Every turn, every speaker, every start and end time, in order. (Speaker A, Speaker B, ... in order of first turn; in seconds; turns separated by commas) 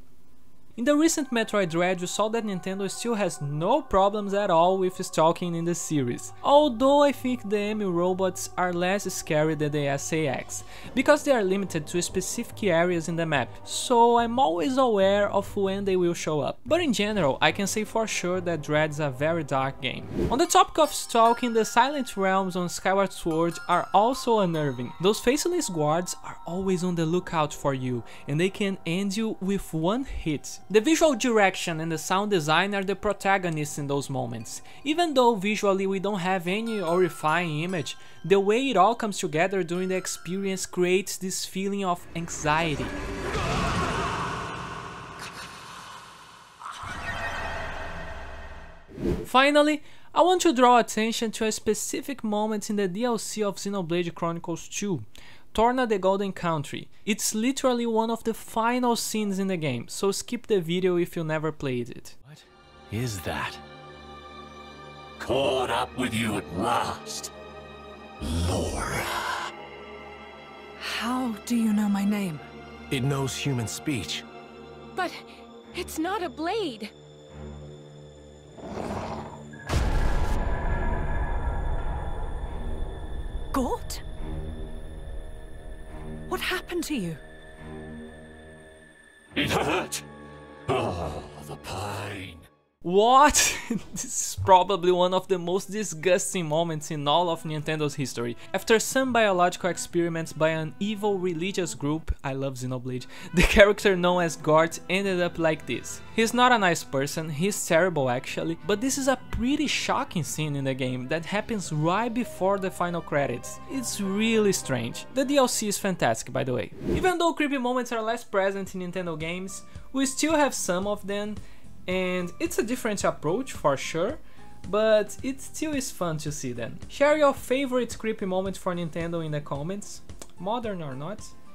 Speaker A: 0.8-43.0, Speaker A: 49.2-62.1, Speaker B: 62.9-63.6, Speaker C: 65.2-67.3, Speaker C: 68.2-69.5, Speaker D: 70.8-72.5, Speaker B: 72.9-74.2, Speaker E: 75.0-76.9, Speaker D: 83.5-84.0, Speaker D: 86.3-87.2, Speaker C: 89.3-90.1, Speaker C: 90.7-92.5, Speaker A: 92.8-131.3